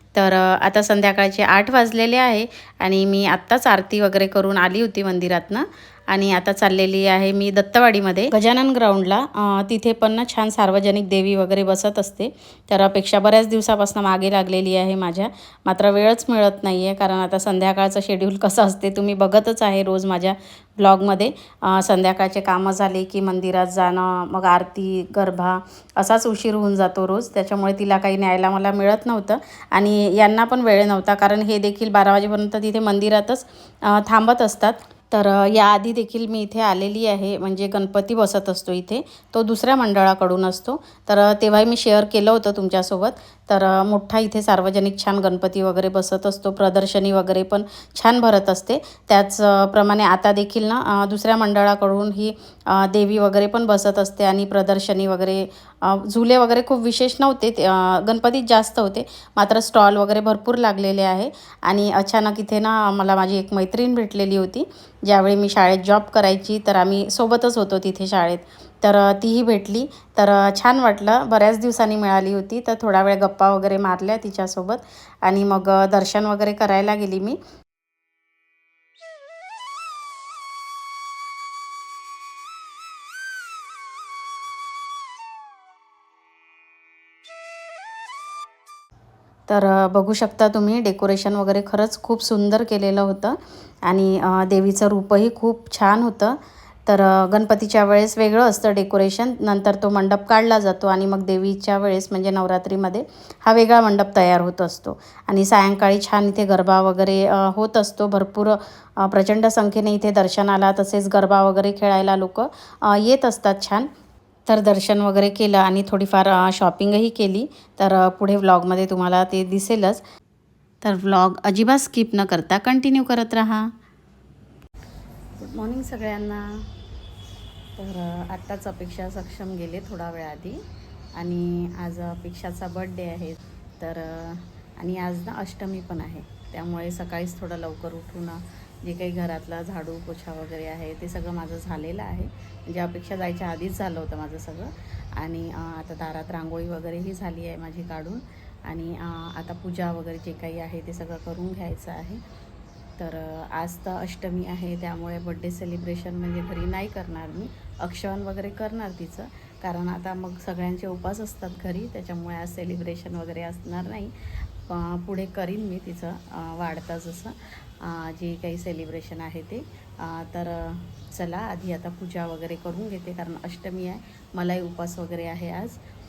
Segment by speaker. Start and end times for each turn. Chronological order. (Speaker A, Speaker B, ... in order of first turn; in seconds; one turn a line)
Speaker A: 0.1-77.4
Speaker A: 89.5-113.9
Speaker A: 114.5-120.0
Speaker A: 120.8-123.7
Speaker A: 125.4-126.7
Speaker A: 127.8-130.6
Speaker A: 131.2-152.2
Speaker A: 153.0-175.8